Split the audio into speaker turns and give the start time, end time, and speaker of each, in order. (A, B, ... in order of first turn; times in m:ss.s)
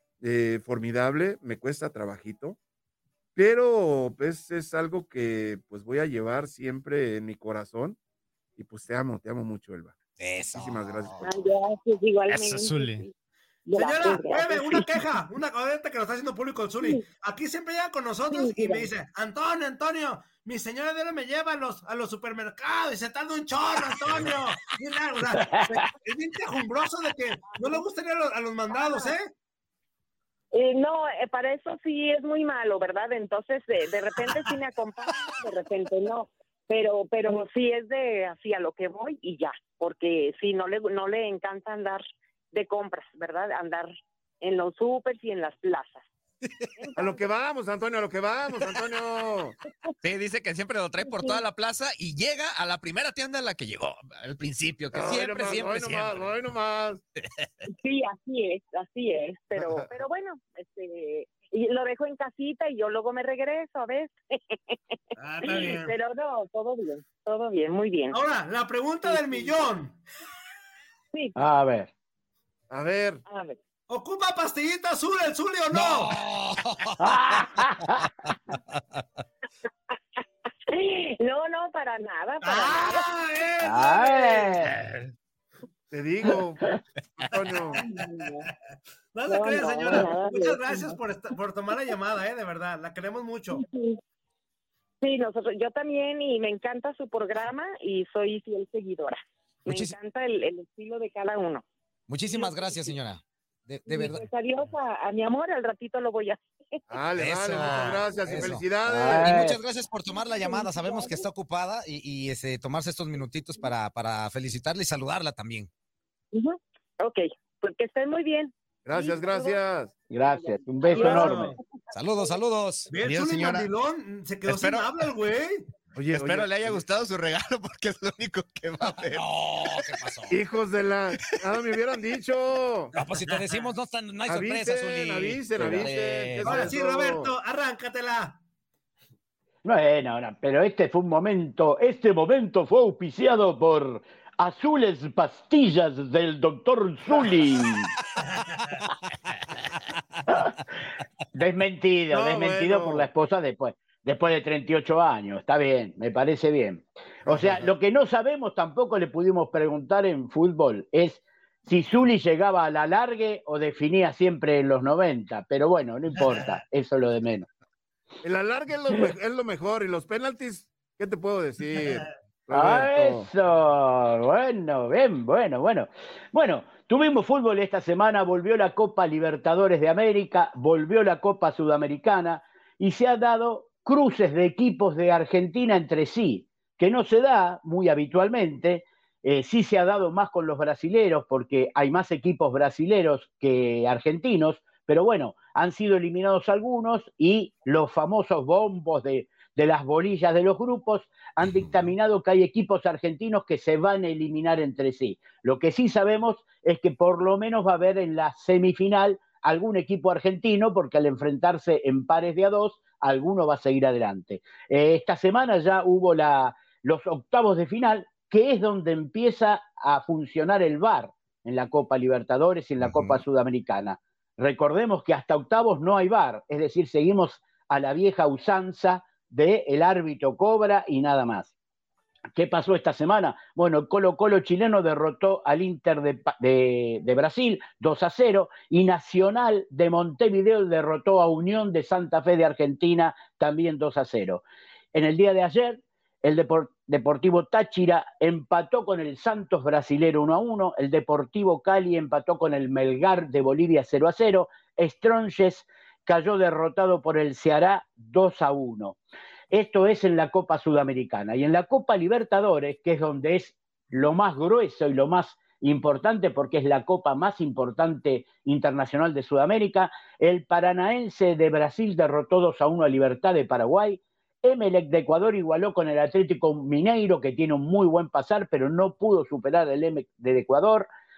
0:00.2-0:02.6 A
0:03.4-0:08.0 A
0:08.6-0:10.0 A
0:10.2-0:11.2 B
0:10.5-0:11.2 A
0:11.2-0:13.1 C
0:12.3-0:13.0 D
0:13.6-0:15.0 C
0:13.7-0:29.3 E
0:18.3-0:18.9 C
0:25.3-0:25.9 F
0:27.4-0:27.8 C
0:28.7-0:29.1 C
0:30.5-0:46.0 C
0:46.8-0:47.3 C
0:47.0-0:49.5 A
0:49.6-0:49.9 C
0:50.0-0:56.3 D
0:51.0-0:51.4 C
0:54.9-0:57.0 A
0:55.1-0:55.6 B
0:57.6-1:04.8 C
0:59.6-0:59.9 A
1:05.2-1:05.9 E
1:05.4-1:08.2 C
1:08.1-1:10.0 E
1:11.1-1:11.4 C
1:11.4-1:11.9 F
1:12.7-1:13.2 A
1:13.3-1:13.6 C
1:13.9-1:16.2 E
1:15.7-1:17.0 B
1:17.0-1:18.0 F
1:20.7-1:23.1 C
1:22.4-1:24.6 E
1:23.6-1:24.7 F
1:24.7-1:25.0 D
1:25.9-1:26.6 A
1:27.2-1:27.8 A
1:27.7-1:28.5 C
1:29.1-1:33.6 E
1:29.2-1:31.0 C
1:33.5-1:34.0 C
1:35.0-1:41.6 C
1:39.7-1:39.9 B
1:42.1-1:44.2 B
1:42.3-1:43.0 C
1:43.9-1:46.8 C
1:46.9-1:49.4 A
1:47.2-1:55.7 B
1:47.9-1:48.4 C
1:48.8-1:49.6 F
1:50.0-1:51.2 C
1:56.3-1:59.6 C
1:58.8-2:00.0 A
2:00.1-2:01.4 F
2:00.2-2:02.3 C
2:01.0-2:01.6 E
2:01.9-2:03.7 B
2:02.9-2:05.6 E
2:04.5-2:04.9 D
2:05.9-2:06.8 A
2:06.1-2:09.3 D
2:09.0-2:10.4 B
2:10.3-2:12.9 A
2:13.0-2:16.7 B
2:14.3-2:17.3 A
2:16.4-2:18.4 E
2:19.6-2:27.9 F
2:28.2-2:28.8 E
2:31.3-2:47.5 F
2:32.1-2:33.1 E
2:37.2-2:37.7 A
2:46.2-2:46.4 E
2:48.2-2:53.3 A
2:52.5-3:51.5 F
3:21.4-3:21.8 B
3:42.8-3:43.2 B
3:52.3-4:04.4 F
4:04.9-4:19.0 F
4:19.5-4:40.9 F